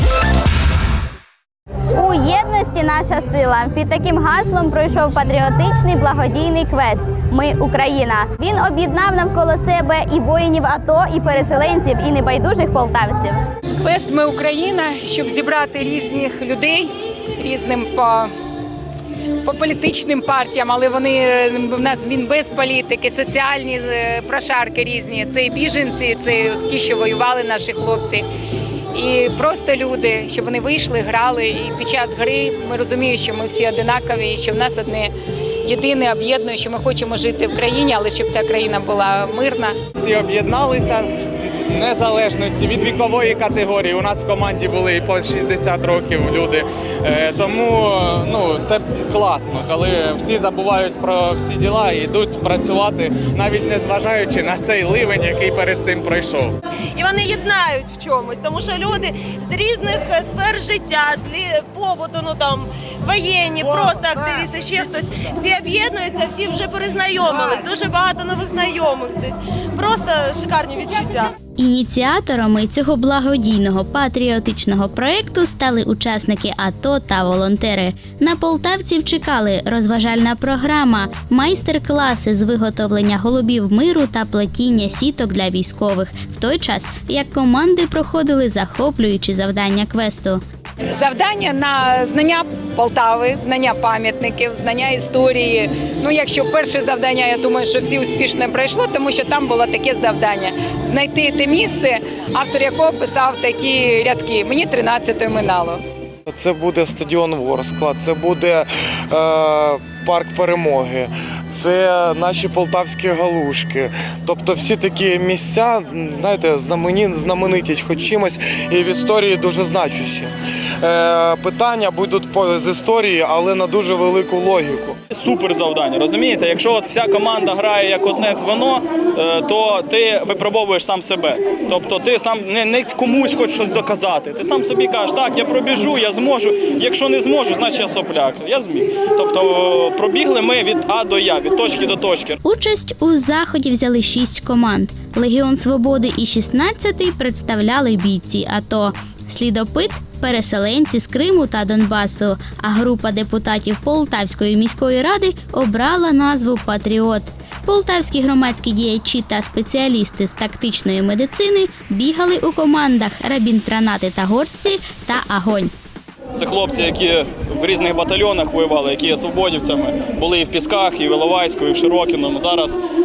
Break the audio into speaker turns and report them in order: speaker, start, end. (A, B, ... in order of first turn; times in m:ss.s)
0:01.9-0:13.4 A
0:13.8-0:18.3 B
0:19.4-0:28.2 B
0:28.9-0:35.1 B
0:35.6-0:39.8 B
0:39.9-0:56.5 C
0:57.0-1:11.3 D
1:11.6-1:30.4 E
1:30.9-1:45.8 B
1:46.3-2:05.0 F
2:05.1-2:22.4 G
2:22.4-2:45.7 E
2:46.4-2:52.8 G